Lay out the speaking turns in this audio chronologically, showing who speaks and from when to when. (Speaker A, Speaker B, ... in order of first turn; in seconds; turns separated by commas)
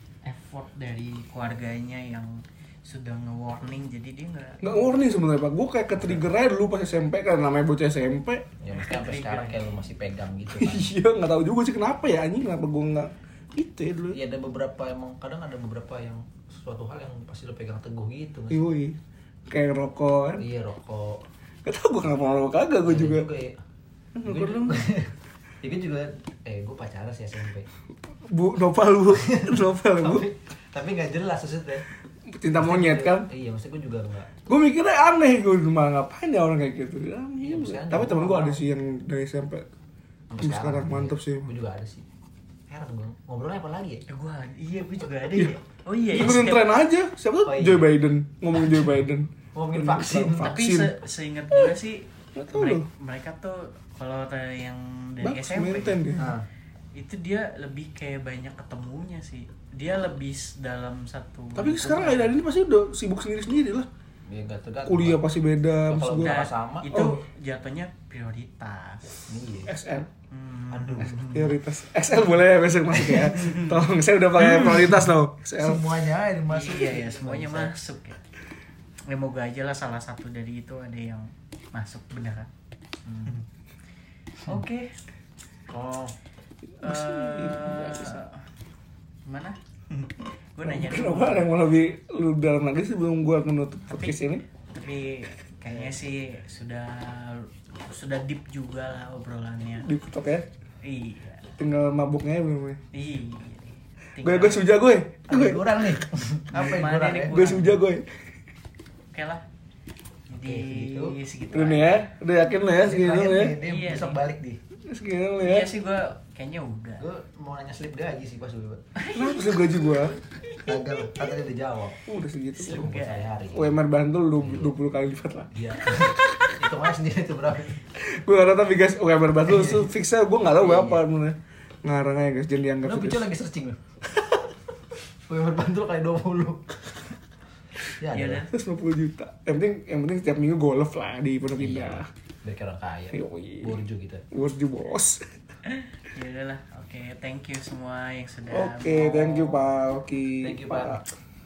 Speaker A: 0.2-4.7, Speaker B: 4.6-8.5, Speaker C: 6.0-6.2, Speaker C: 8.6-10.9, Speaker A: 8.7-9.7, Speaker B: 10.5-14.2, Speaker C: 14.1-18.6, Speaker B: 18.5-19.0, Speaker B: 19.5-20.4, Speaker C: 20.4-21.2, Speaker B: 21.6-23.3, Speaker C: 22.8-23.6, Speaker B: 24.1-24.9, Speaker C: 24.2-27.7, Speaker B: 28.3-30.3, Speaker C: 29.1-31.9, Speaker B: 32.3-33.3, Speaker C: 32.6-34.3, Speaker B: 34.5-39.7, Speaker C: 37.4-38.6, Speaker C: 40.3-42.1, Speaker B: 40.4-41.5, Speaker C: 42.7-44.0, Speaker A: 44.1-46.7, Speaker B: 46.1-50.9, Speaker C: 47.5-47.9, Speaker C: 49.5-50.6, Speaker A: 50.4-56.3, Speaker B: 52.4-52.9, Speaker B: 55.2-56.2, Speaker C: 56.2-56.5, Speaker A: 57.0-62.3, Speaker B: 61.6-63.9, Speaker C: 64.3-65.2, Speaker B: 64.9-66.4, Speaker C: 65.8-67.0, Speaker A: 66.2-69.2, Speaker B: 66.9-67.2, Speaker C: 69.3-69.7, Speaker B: 69.7-70.1, Speaker A: 70.3-71.5, Speaker C: 70.7-71.4, Speaker B: 71.3-75.9, Speaker A: 73.4-73.7, Speaker C: 75.6-77.7, Speaker A: 76.5-78.2, Speaker A: 79.1-82.5, Speaker C: 83.0-83.4, Speaker A: 84.5-84.9, Speaker C: 85.7-86.1, Speaker B: 86.8-88.2, Speaker A: 86.8-88.4, Speaker A: 89.2-91.5, Speaker B: 90.6-94.4, Speaker A: 93.9-99.9, Speaker B: 99.8-100.5, Speaker A: 100.8-101.5, Speaker B: 101.6-102.8, Speaker A: 102.9-104.7, Speaker B: 104.2-105.8, Speaker C: 105.3-107.5, Speaker A: 106.5-107.8, Speaker B: 107.3-108.0, Speaker A: 109.1-109.4, Speaker A: 110.3-112.1, Speaker C: 110.3-111.2, Speaker B: 111.5-113.6, Speaker C: 112.8-114.6, Speaker A: 113.6-114.2, Speaker B: 114.9-115.7, Speaker A: 115.4-117.0, Speaker C: 117.0-118.8, Speaker A: 119.0-121.2, Speaker B: 119.1-120.1, Speaker C: 120.6-122.0, Speaker B: 122.1-122.9, Speaker A: 122.6-123.3, Speaker C: 122.7-123.8, Speaker B: 123.5-126.7, Speaker C: 124.4-124.7, Speaker C: 125.5-127.8, Speaker B: 128.0-133.3, Speaker C: 129.4-129.9, Speaker C: 130.6-131.0, Speaker C: 132.8-134.3, Speaker C: 135.3-136.7, Speaker C: 138.0-138.5, Speaker A: 138.1-138.5, Speaker B: 138.5-142.1, Speaker C: 141.6-144.2, Speaker B: 143.1-143.8, Speaker B: 144.3-145.3, Speaker A: 145.7-149.5, Speaker B: 148.5-151.1, Speaker C: 150.4-151.0